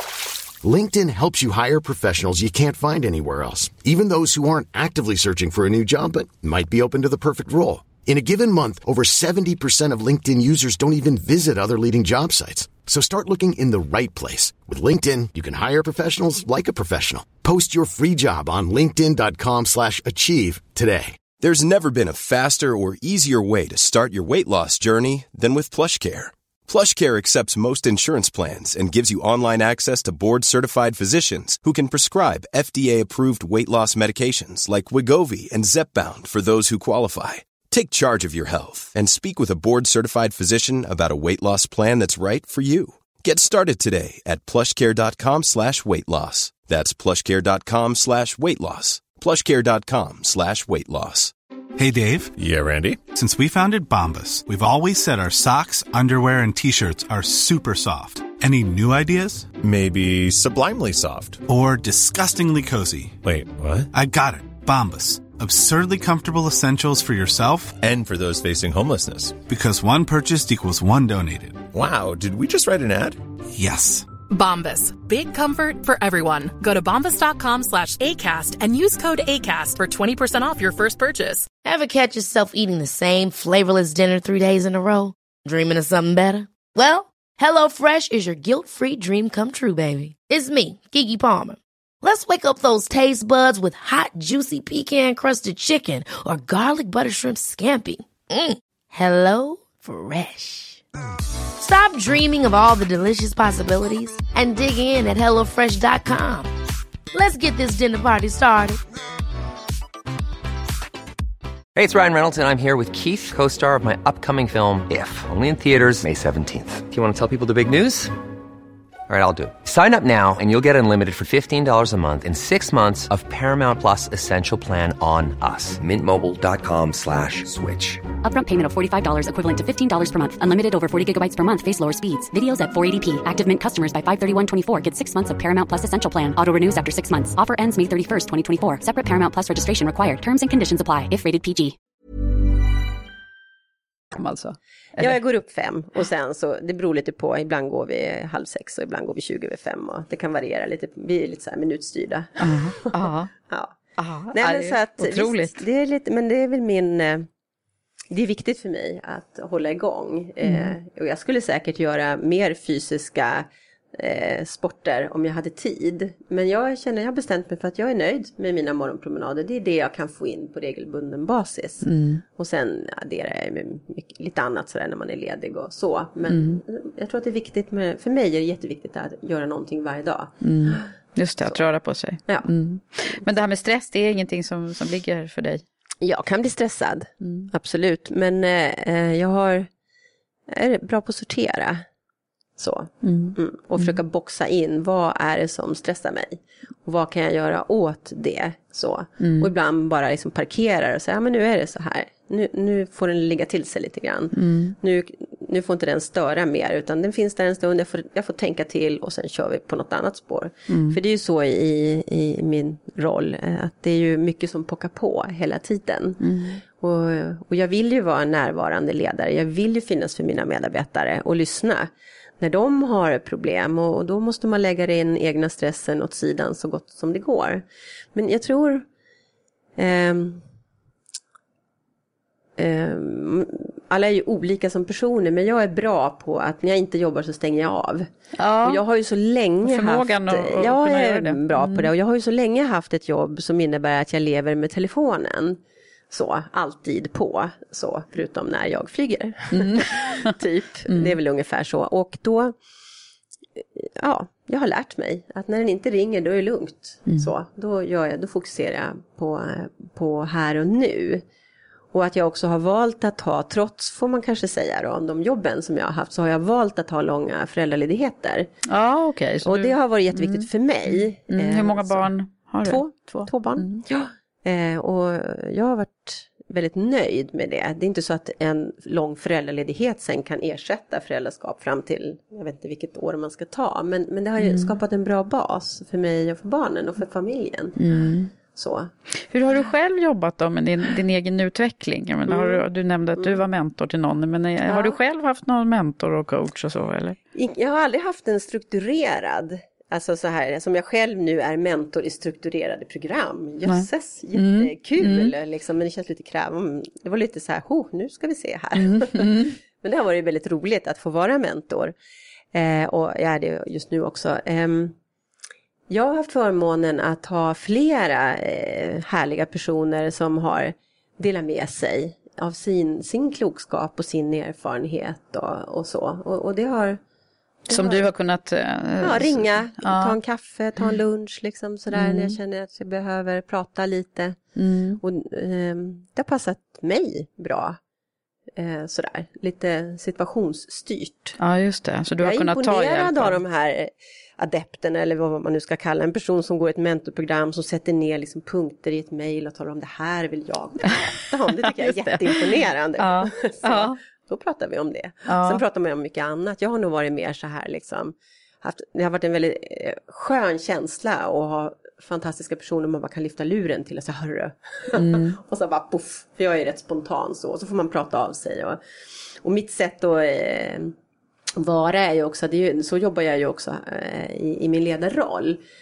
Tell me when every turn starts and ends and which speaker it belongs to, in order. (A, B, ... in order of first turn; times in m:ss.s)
0:00.6-0:21.2 A
0:21.4-0:51.3 B
0:51.8-0:52.3 C
0:52.4-0:53.0 D
0:53.1-0:59.5 C
0:59.6-1:01.4 D
1:01.4-1:03.2 C
1:03.2-1:03.9 D
1:03.9-1:07.7 C
1:07.8-1:09.4 D
1:09.4-1:11.6 C
1:11.7-1:13.2 D
1:13.5-1:14.1 C
1:14.3-1:21.5 E
1:21.6-1:40.8 F
1:41.6-1:46.5 F
1:47.1-1:48.8 F
1:51.7-1:58.1 G
1:59.1-2:08.0 G
2:06.1-2:07.0 D
2:08.2-2:21.7 H
2:24.1-2:25.2 I
2:25.0-2:32.9 J
2:32.4-2:33.3 I
2:33.5-2:33.8 J
2:34.0-2:35.6 I
2:34.3-2:37.3 J
2:38.1-3:00.9 J
2:40.4-2:40.7 I
2:51.8-2:52.2 I
2:56.3-2:56.6 I
3:00.4-3:05.6 I
3:06.0-3:09.7 J
3:07.2-3:07.5 I
3:10.5-3:11.8 J
3:12.6-3:48.8 J
3:13.0-3:14.0 I
3:19.2-3:19.5 I
3:24.3-3:24.7 I
3:30.7-3:31.0 I
3:36.2-3:36.6 I
3:49.8-3:50.4 J
3:52.6-3:58.1 J
3:58.4-3:58.8 I
3:58.6-4:05.6 J
3:59.6-4:01.9 I
4:06.1-4:12.5 J
4:09.5-4:10.4 I
4:10.9-4:11.2 I
4:13.6-4:21.2 J
4:21.9-4:28.5 J
4:28.7-4:33.8 I
4:29.4-4:32.1 J
4:32.6-4:47.8 J
4:44.4-4:44.7 I
4:47.8-4:48.3 I
4:48.5-4:48.9 J
4:49.3-4:57.2 I
4:52.3-4:52.6 J
4:54.7-4:55.0 J
4:57.3-5:11.9 J
5:03.6-5:05.3 I
5:08.8-5:09.6 I
5:12.5-5:14.9 J
5:15.9-5:27.0 J
5:27.7-5:28.0 J
5:27.7-5:30.2 I
5:29.0-5:34.4 J
5:31.9-5:32.4 I
5:34.6-5:35.0 I
5:35.0-5:37.8 J
5:38.6-5:41.4 J
5:41.4-5:43.4 I
5:42.2-6:08.8 J
5:51.6-5:52.4 I
5:53.0-5:54.0 I
5:55.3-5:55.6 I
6:04.9-6:05.4 I
6:09.4-6:10.9 J
6:11.6-6:15.6 J